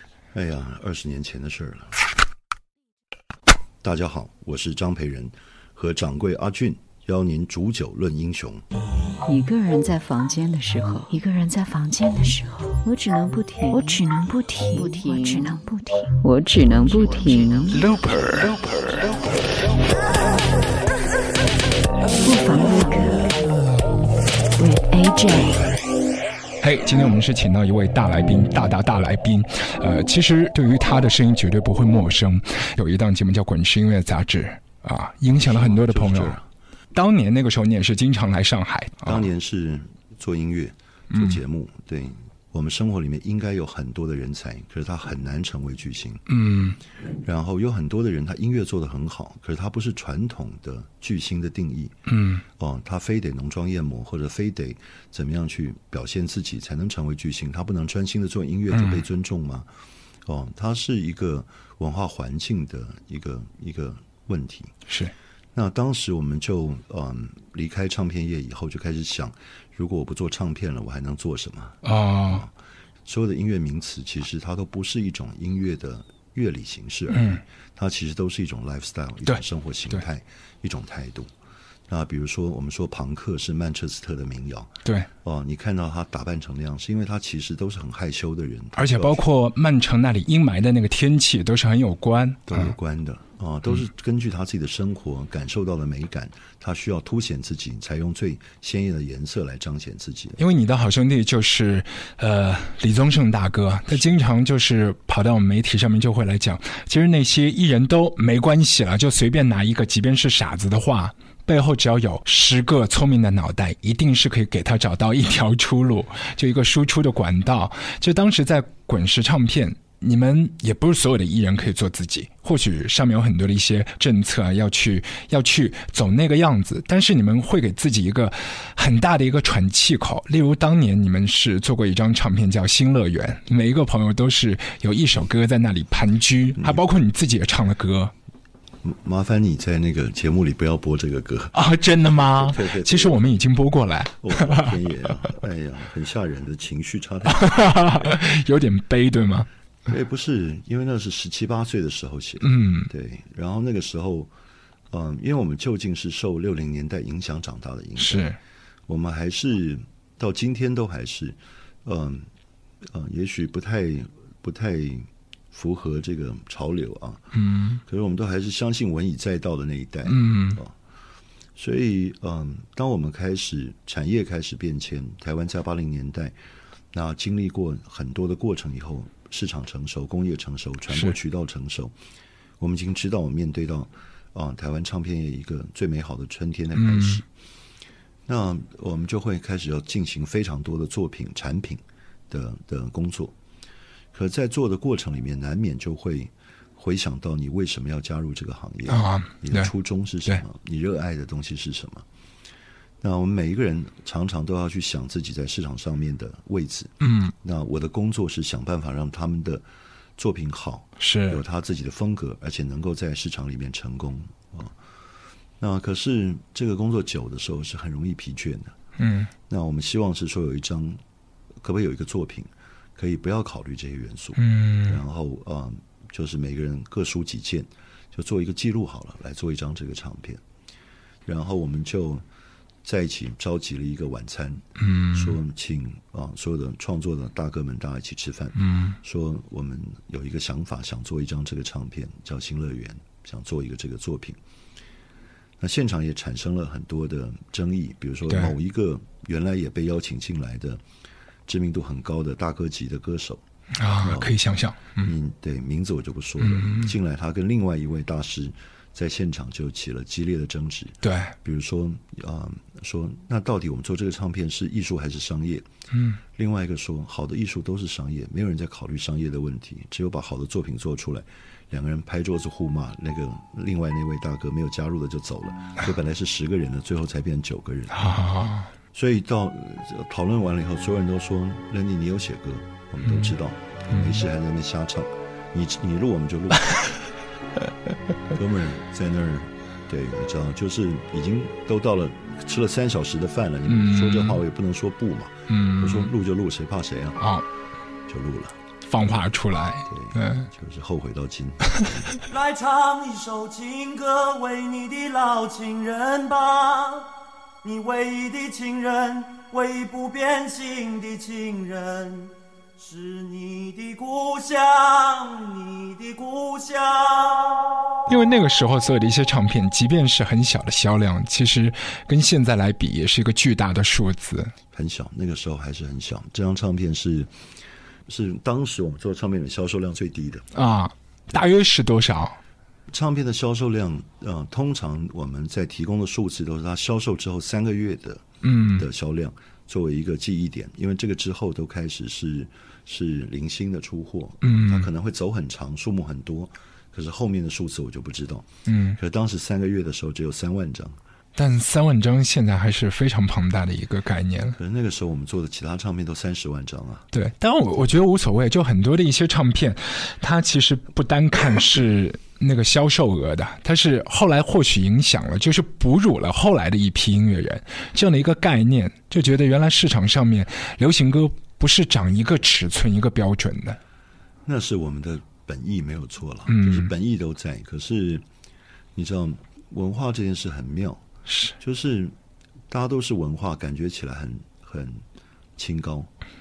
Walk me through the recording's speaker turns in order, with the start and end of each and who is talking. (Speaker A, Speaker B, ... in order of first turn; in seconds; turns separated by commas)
Speaker A: 0.3-1.9, Speaker A: 3.8-8.6, Speaker B: 9.2-17.9, Speaker C: 17.9-18.5, Speaker B: 22.1-23.3, Speaker B: 24.6-25.6, Speaker C: 26.6-36.4, Speaker A: 35.4-36.5, Speaker C: 36.9-39.2, Speaker A: 39.0-46.3, Speaker C: 41.1-41.4, Speaker C: 46.3-46.8, Speaker A: 47.2-52.0, Speaker C: 52.1-52.4, Speaker A: 52.6-59.7, Speaker C: 58.7-59.0, Speaker A: 60.2-64.7, Speaker C: 64.9-65.1, Speaker A: 65.5-72.5, Speaker C: 71.8-72.4, Speaker A: 73.0-81.3, Speaker C: 77.1-77.4, Speaker A: 81.9-89.2, Speaker C: 88.8-92.7, Speaker A: 92.5-100.4, Speaker C: 100.4-138.1, Speaker A: 138.8-141.6, Speaker C: 141.5-144.8, Speaker A: 142.2-143.2, Speaker A: 144.2-147.9, Speaker C: 147.2-149.5, Speaker A: 149.8-154.3, Speaker C: 152.4-152.9, Speaker A: 154.9-158.3, Speaker C: 158.0-158.4, Speaker A: 158.9-162.3, Speaker A: 162.8-167.3, Speaker C: 167.3-167.8, Speaker A: 167.8-170.7, Speaker C: 170.1-170.6, Speaker A: 171.6-176.3, Speaker A: 176.9-181.9, Speaker A: 182.6-187.2, Speaker C: 186.8-187.2, Speaker A: 188.3-193.3, Speaker A: 194.1-202.0, Speaker C: 198.9-199.7, Speaker A: 203.0-209.6, Speaker C: 207.0-207.3, Speaker A: 210.2-214.8, Speaker C: 211.0-211.4, Speaker A: 215.6-218.8, Speaker C: 219.0-219.3, Speaker A: 219.5-221.0, Speaker A: 221.6-230.4, Speaker C: 224.4-225.0, Speaker A: 231.2-232.2, Speaker A: 232.8-244.4, Speaker C: 234.8-235.3, Speaker C: 238.6-239.0, Speaker A: 245.6-250.8, Speaker C: 248.3-248.5, Speaker A: 251.5-253.4, Speaker C: 253.7-255.1, Speaker A: 254.0-254.3, Speaker A: 255.0-265.6, Speaker C: 256.4-256.9, Speaker C: 261.0-261.3, Speaker C: 265.9-266.2, Speaker A: 266.3-278.1, Speaker C: 277.9-278.7, Speaker A: 278.9-286.9, Speaker C: 283.0-283.3, Speaker C: 283.9-284.2, Speaker A: 288.3-297.2, Speaker C: 293.7-294.4, Speaker C: 295.5-296.1, Speaker C: 297.2-297.4, Speaker A: 298.1-298.6, Speaker C: 298.9-300.5, Speaker A: 299.9-302.2, Speaker D: 302.3-307.1, Speaker D: 307.6-317.9, Speaker C: 318.1-324.5, Speaker A: 324.7-327.3, Speaker A: 328.1-330.5, Speaker C: 330.5-332.4, Speaker A: 332.9-351.0, Speaker C: 338.4-338.9, Speaker C: 344.4-344.9, Speaker C: 348.6-349.0, Speaker C: 351.3-354.6, Speaker A: 354.6-357.1, Speaker C: 357.1-373.8, Speaker A: 374.4-378.2, Speaker C: 376.5-376.9, Speaker A: 378.9-381.0, Speaker C: 381.3-381.5, Speaker A: 381.6-382.1, Speaker A: 382.7-385.0, Speaker A: 385.6-386.1